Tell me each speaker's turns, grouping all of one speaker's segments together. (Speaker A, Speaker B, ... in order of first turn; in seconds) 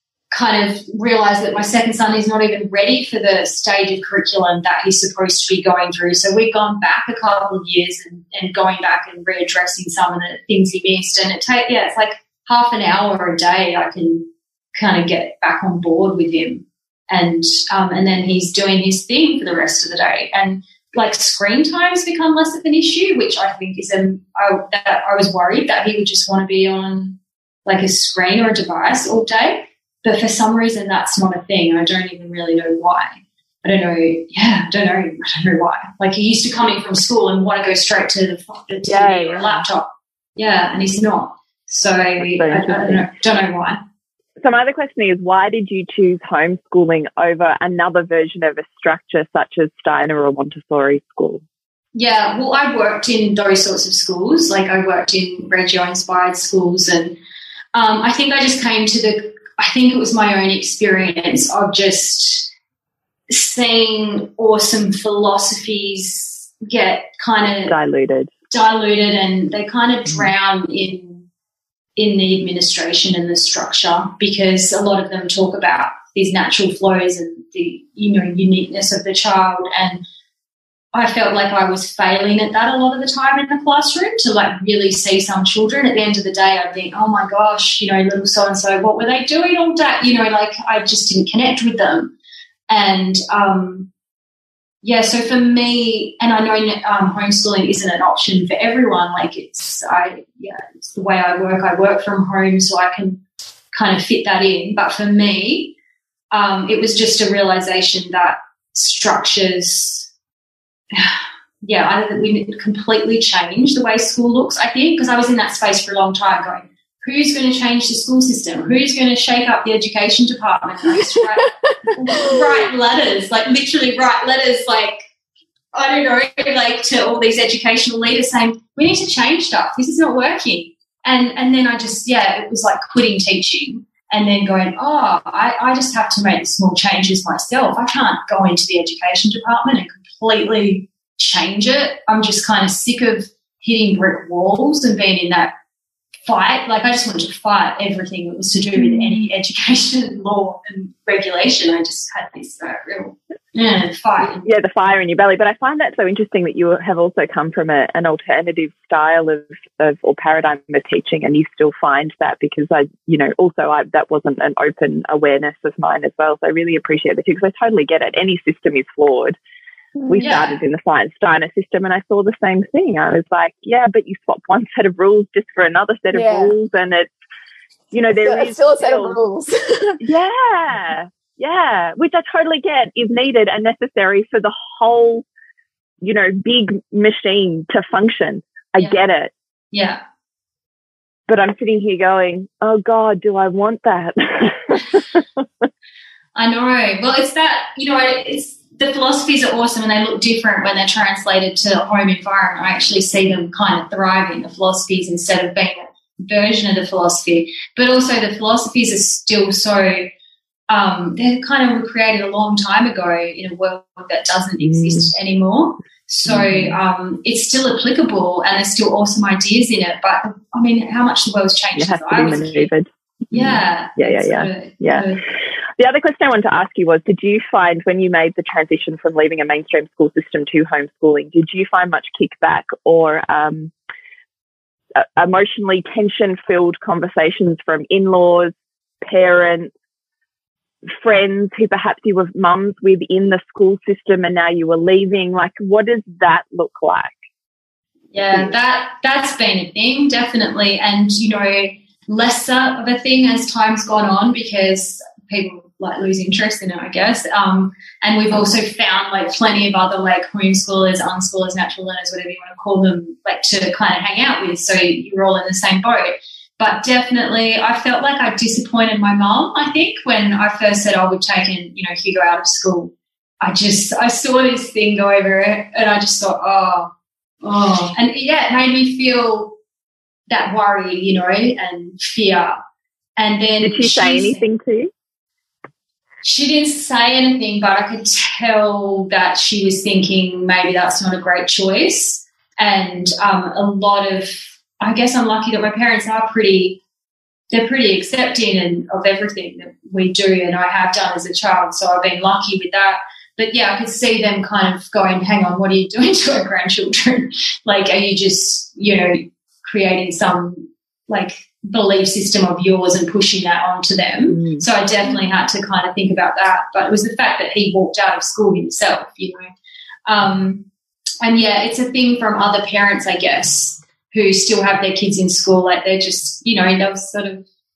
Speaker A: 0.3-43.8, 52.0-57.2, 57.7-62.5, 63.3-67.8, 68.5-71.3, 72.0-80.0, 80.9-92.1, 92.7-93.9, 94.8-105.8, 106.3-110.1, 110.9-125.0, 125.7-145.5, 146.3-154.5, 170.2-170.6, 189.7-190.0, 196.4-210.1, 210.7-222.7, 223.3-225.2, 248.1-276.9, 277.4-279.6, 280.3-282.6, 283.2-284.4, 286.2-296.8, 297.5-319.5, 320.1-320.7, 321.2-327.4
Speaker B: 38.9-39.6, 42.2-43.0, 44.4-51.4, 67.7-68.3, 154.4-169.4, 170.1-177.1, 177.9-179.2, 180.0-185.2, 186.0-189.3, 191.3-195.2, 214.6-215.1, 216.3-216.8, 221.8-225.1, 225.8-233.7, 234.9-239.7, 241.0-247.1, 283.6-284.9, 314.3-314.6
Speaker C: 120.9-122.6, 148.8-149.2, 170.0-170.3, 176.1-176.6, 178.1-180.0